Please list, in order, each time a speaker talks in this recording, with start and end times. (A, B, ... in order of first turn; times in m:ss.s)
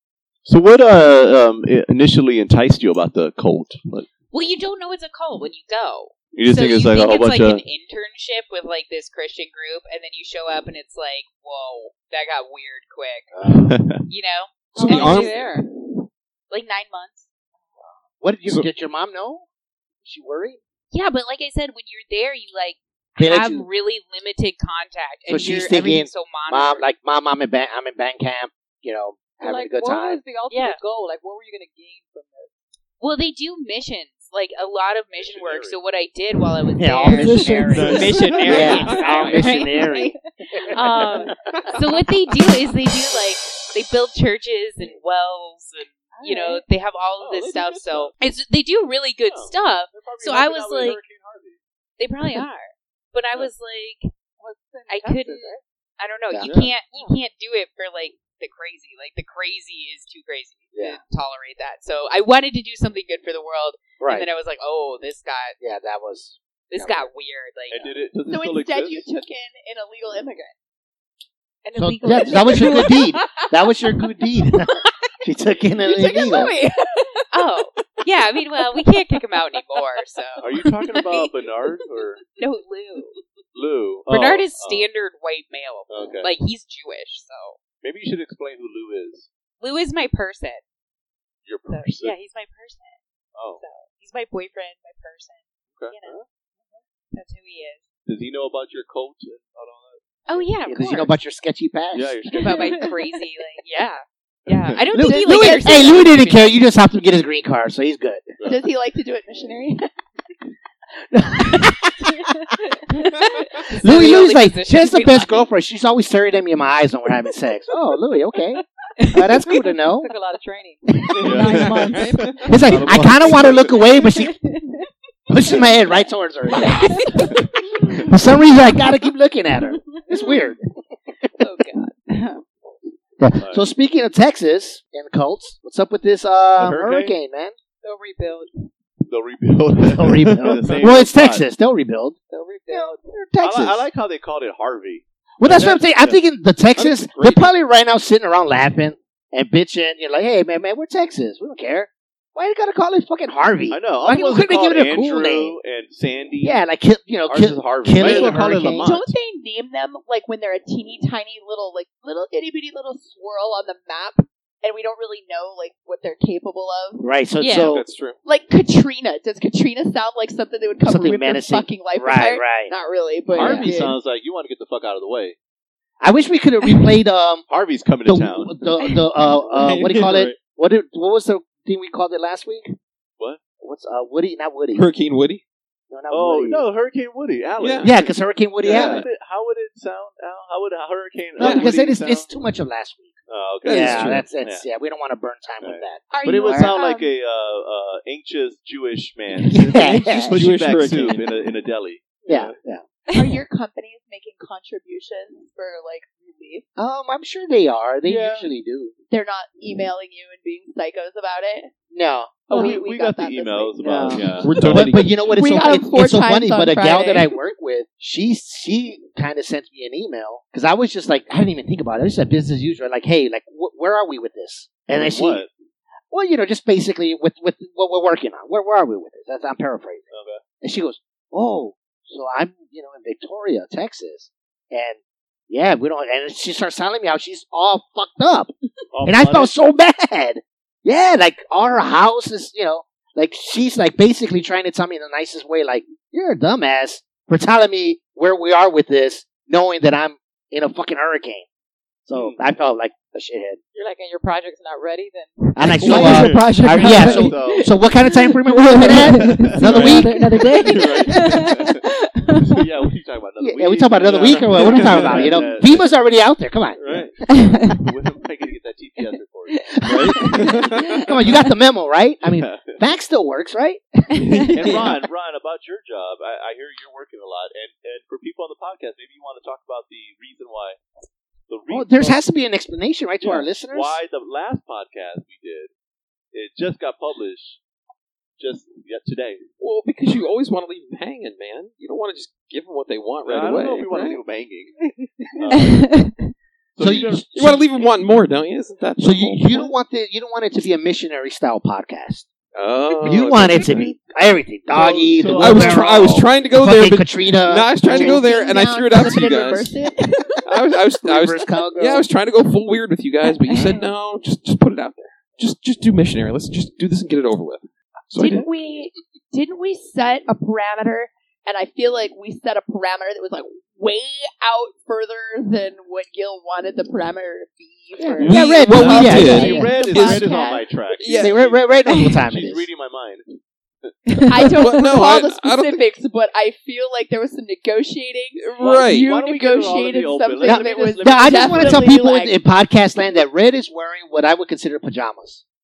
0:00.4-0:04.1 A
0:04.3-0:13.3 B
0:06.3-0:07.6 A
0:13.4-0:13.7 C
0:13.5-0:14.0 A
0:14.0-0:15.4 B
0:14.8-0:15.5 D
0:14.8-0:15.7 E
0:16.5-0:17.3 B
0:18.0-0:19.4 C
0:20.0-0:20.6 C
0:20.9-0:26.8 B
0:23.2-0:23.6 C
0:25.3-0:30.2 C
0:29.4-0:32.5 E
0:30.5-0:30.8 B
0:33.0-0:40.1 B
0:35.2-0:35.8 A
0:36.8-0:40.1 C
0:37.1-0:38.7 E
0:37.7-0:39.4 D
0:37.9-0:38.6 A
0:39.4-0:40.0 E
0:40.7-0:51.0 B
0:40.9-0:41.3 E
0:46.1-0:46.6 E
0:47.2-0:48.1 A
0:49.3-0:51.6 A
0:52.0-0:54.1 B
0:54.4-0:55.6 E
0:54.9-1:05.6 B
0:56.3-0:56.7 C
0:56.4-0:56.7 A
1:00.7-1:01.0 C
1:04.0-1:04.3 C
1:05.6-1:07.0 C
1:06.7-1:08.0 B
1:07.7-1:09.0 A
1:08.3-1:10.5 F
1:11.6-1:13.1 B
1:11.8-1:14.7 C
1:12.5-1:12.8 E
1:15.2-1:16.5 C
1:15.8-1:16.9 F
1:17.3-1:21.3 B
1:20.4-1:22.2 A
1:22.4-1:23.1 B
1:23.5-1:24.9 A
1:24.1-1:27.6 B
1:25.9-1:26.3 A
1:27.8-1:29.3 A
1:29.6-1:30.6 B
1:31.4-1:32.1 A
1:31.7-1:33.0 B
1:33.3-1:33.6 A
1:33.6-1:36.2 B
1:35.8-1:36.2 A
1:36.7-1:37.8 B
1:38.1-1:40.4 A
1:40.3-1:41.1 B
1:40.7-1:42.2 C
1:41.9-1:42.9 A
1:42.4-1:46.6 B
1:42.4-1:42.9 E
1:44.5-1:44.8 A
1:44.9-1:48.3 C
1:45.3-1:45.9 F
1:48.4-1:49.8 F
1:51.1-1:52.1 C
1:53.7-1:55.5 B
1:53.8-2:00.1 C
1:59.0-2:02.9 E
2:01.0-2:01.7 C
2:01.2-2:03.8 A
2:01.4-2:02.3 D
2:02.4-2:04.3 C
2:04.0-2:04.8 E
2:05.3-2:10.6 C
2:06.6-2:07.3 E
2:11.4-2:11.9 B
2:12.1-2:12.4 E
2:13.2-2:17.5 C
2:13.4-2:13.7 A
2:16.6-2:17.2 A
2:17.8-2:18.5 E
2:19.1-2:21.4 A
2:19.9-2:22.2 C
2:22.3-2:23.0 E
2:22.7-2:23.8 C
2:23.4-2:26.2 A
2:25.4-2:35.6 C
2:26.8-2:27.5 D
2:33.7-2:36.6 A
2:36.4-2:38.9 C
2:37.3-2:39.1 A
2:38.0-2:47.0 F
2:47.0-2:47.8 C
2:47.4-2:47.7 B
2:47.6-2:48.2 D
2:48.2-2:54.0 F
2:50.8-2:52.7 C
2:53.3-2:55.4 A
2:53.3-2:53.7 C
2:56.0-2:57.4 C
2:57.5-2:58.7 A
2:58.0-3:02.8 C
2:59.5-3:00.4 D
3:03.6-3:04.9 C
3:04.7-3:05.4 D
3:05.9-3:06.6 C
3:06.1-3:12.3 A
3:07.6-3:07.9 D
3:07.8-3:09.0 C
3:08.6-3:09.0 D
3:11.4-3:16.0 C
3:11.4-3:11.7 D
3:13.3-3:14.6 A
3:13.6-3:14.2 D
3:15.6-3:22.1 A
3:16.1-3:17.1 F
3:19.5-3:20.4 C
3:19.9-3:21.4 D
3:22.2-3:22.5 D
3:22.3-3:22.8 C
3:23.1-3:26.6 F
3:26.8-3:28.9 C
3:28.0-3:28.5 A
3:29.1-3:31.7 F
3:31.9-3:32.6 C
3:32.5-3:34.1 F
3:32.5-3:35.3 A
3:33.8-3:34.2 E
3:34.0-3:45.4 C
3:34.4-3:35.0 D
3:35.2-3:37.4 F
3:44.9-3:45.5 A
3:46.1-3:50.1 C
3:50.1-3:50.4 A
3:50.6-3:55.0 C
3:55.5-3:58.5 C
3:58.9-3:59.5 A
3:59.0-4:11.4 C
4:12.0-4:13.6 C
4:12.1-4:12.4 A
4:13.7-4:22.7 E
4:15.6-4:20.5 C
4:15.8-4:17.7 A
4:16.0-4:16.3 D
4:18.8-4:21.8 A
4:19.7-4:20.0 D
4:22.4-4:25.9 A
4:23.4-4:27.0 C
4:24.2-4:25.4 D
4:26.8-4:27.1 D
4:26.8-4:30.9 A
4:27.3-4:27.8 E
4:29.8-4:34.8 C
4:29.8-4:30.4 E
4:32.2-4:32.8 A
4:34.5-4:40.8 A
4:41.5-4:42.2 A
4:41.7-4:44.0 C
4:43.2-4:45.7 A
4:46.3-4:47.6 A
4:48.4-4:49.4 A
4:49.6-4:54.2 D
4:53.2-4:54.7 A
4:55.4-4:55.9 A
4:55.5-4:56.3 E
4:56.8-4:57.5 A
4:56.8-4:57.6 C
4:57.3-4:59.7 D
4:59.0-5:02.2 C
5:02.5-5:03.9 D
5:03.0-5:08.3 C
5:04.7-5:06.3 A
5:05.4-5:09.7 D
5:07.8-5:10.4 F
5:10.4-5:18.4 D
5:11.0-5:12.0 C
5:18.2-5:30.7 F
5:28.0-5:29.7 C
5:28.2-5:33.9 A
5:28.2-5:31.4 D
5:31.1-5:32.6 C
5:31.9-5:32.2 E
5:34.1-5:34.6 E
5:34.3-5:42.3 F
5:34.5-5:35.8 D
5:38.4-5:39.1 D
5:38.6-5:42.0 A
5:40.4-5:45.4 C